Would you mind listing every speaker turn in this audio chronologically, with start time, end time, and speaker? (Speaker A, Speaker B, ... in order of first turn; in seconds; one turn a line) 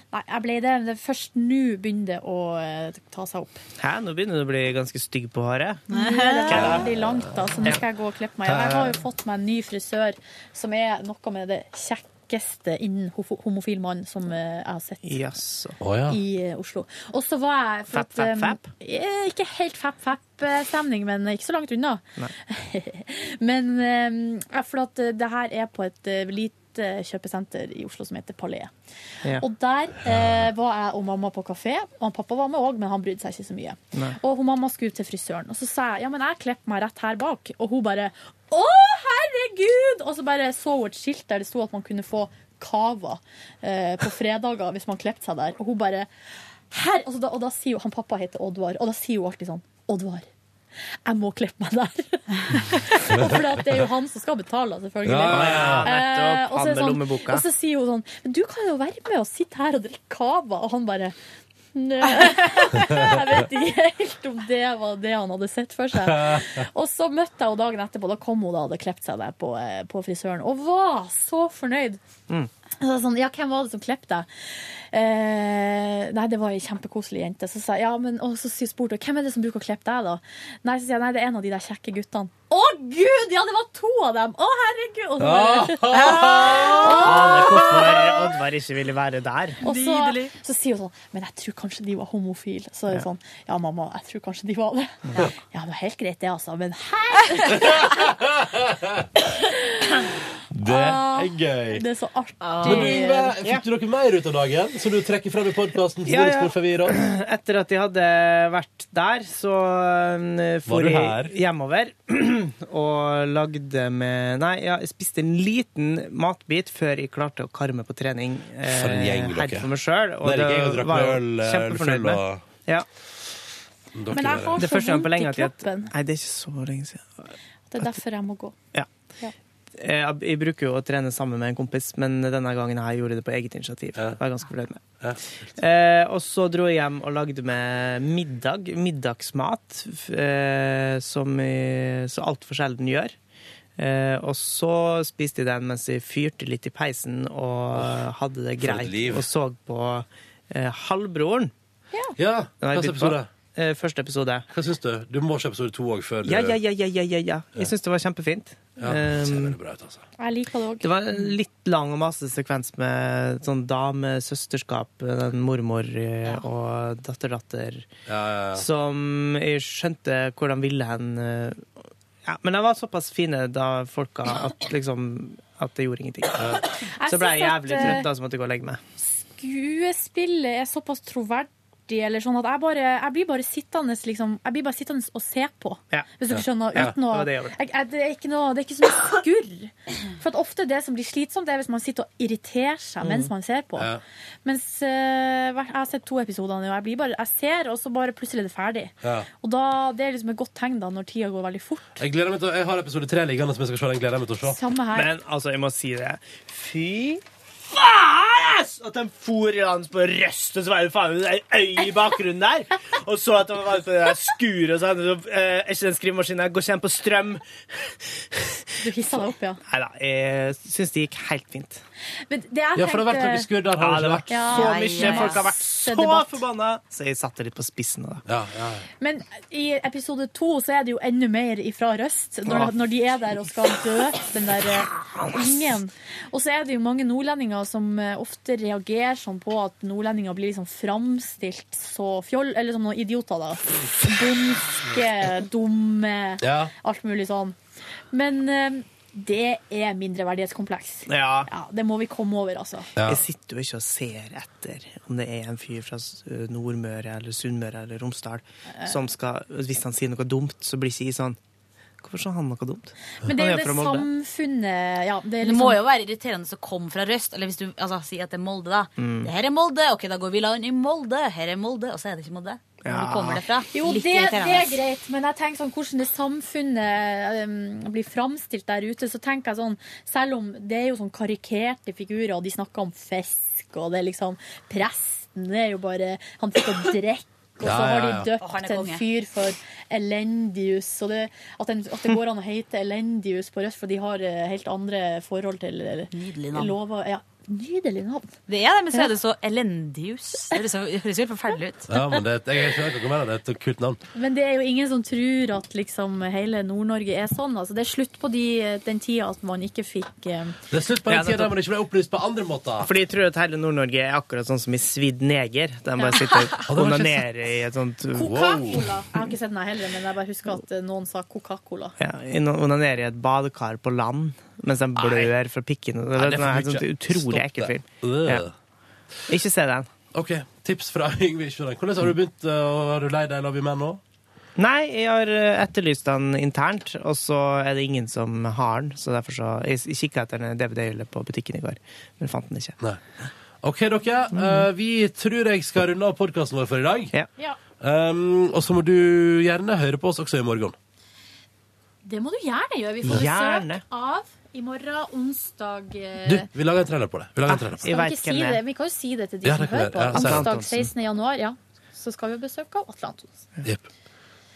Speaker A: 0.1-3.6
Speaker B: 3.8-5.8
Speaker C: 5.9-6.5
Speaker A: 5.9-15.2
Speaker B: 6.5-6.9
Speaker B: 8.5-8.9
Speaker B: 15.0-15.8
Speaker D: 15.8-16.2
Speaker A: 16.1-28.7
Speaker B: 17.9-18.7
Speaker A: 29.4-46.1
Speaker A: 46.7-50.3
Speaker A: 51.0-61.1
Speaker D: 55.0-55.9
Speaker B: 55.2-57.4
Speaker A: 61.7-72.0
Speaker C: 62.5-62.8
Speaker D: 66.1-66.4
Speaker A: 72.8-74.3
Speaker A: 74.9-88.0
Speaker D: 85.2-87.5
Speaker C: 85.9-87.0
Speaker B: 87.0-89.6
Speaker C: 89.6-90.3
Speaker A: 89.6-98.0
Speaker D: 97.5-99.1
Speaker A: 99.3-100.1
Speaker D: 100.5-101.8
Speaker A: 100.7-103.3
Speaker C: 102.4-102.9
Speaker D: 102.6-107.0
Speaker B: 106.0-122.8
Speaker D: 110.7-111.3
Speaker D: 118.7-119.7
Speaker D: 120.2-122.4
Speaker D: 123.9-124.6
Speaker A: 124.1-125.9
Speaker B: 124.6-127.3
Speaker A: 127.7-128.5
Speaker B: 129.8-134.8
Speaker B: 135.6-143.1
Speaker B: 143.8-151.5
Speaker D: 147.7-148.0
Speaker D: 148.6-149.3
Speaker D: 152.2-153.3
Speaker B: 152.6-154.4
Speaker D: 154.5-156.6
Speaker B: 156.2-159.6
Speaker D: 158.8-160.0
Speaker A: 160.2-160.9
Speaker B: 160.8-167.9
Speaker D: 168.1-168.7
Speaker B: 168.5-171.7
Speaker B: 172.2-178.8
Speaker A: 176.9-178.1
Speaker A: 179.0-193.9
Speaker D: 186.3-186.9
Speaker B: 186.7-187.6
Speaker B: 193.0-193.3
Speaker D: 193.8-194.0
Speaker A: 194.4-201.8
Speaker D: 199.0-199.3
Speaker D: 202.0-204.6
Speaker A: 204.4-205.1
Speaker B: 204.9-221.8
Speaker A: 218.8-219.6
Speaker A: 222.3-223.5
Speaker D: 222.8-224.3
Speaker B: 223.8-228.2
Speaker A: 224.3-226.4
Speaker C: 224.5-225.4
Speaker D: 228.2-228.8
Speaker A: 229.0-247.6
Speaker D: 246.4-246.7
Speaker A: 248.1-252.9
Speaker B: 251.1-251.5
Speaker D: 252.9-253.2
Speaker B: 253.0-261.4
Speaker B: 262.0-264.1
Speaker A: 263.2-265.8
Speaker C: 265.4-274.8
Speaker B: 269.0-269.3
Speaker B: 272.8-273.4
Speaker A: 273.7-298.3
Speaker D: 287.6-288.3
Speaker C: 288.4-289.0
Speaker C: 296.1-296.8
Speaker C: 298.5-301.9
Speaker D: 301.9-304.0
Speaker A: 304.1-310.6
Speaker D: 310.7-312.9
Speaker B: 311.1-311.5
Speaker B: 312.8-318.4
Speaker A: 316.0-316.3
Speaker D: 316.7-317.3
Speaker A: 318.1-321.9
Speaker D: 318.2-318.8
Speaker B: 322.0-328.4
Speaker D: 326.1-328.5
Speaker B: 329.3-329.9
Speaker D: 330.1-334.0
Speaker B: 334.6-342.8
Speaker D: 343.6-347.1
Speaker B: 344.3-344.6
Speaker D: 347.8-350.8
Speaker A: 352.0-356.5
Speaker B: 353.0-353.8
Speaker D: 356.2-357.9
Speaker B: 357.5-358.6
Speaker A: 357.8-363.4
Speaker D: 359.4-360.8
Speaker B: 360.1-360.8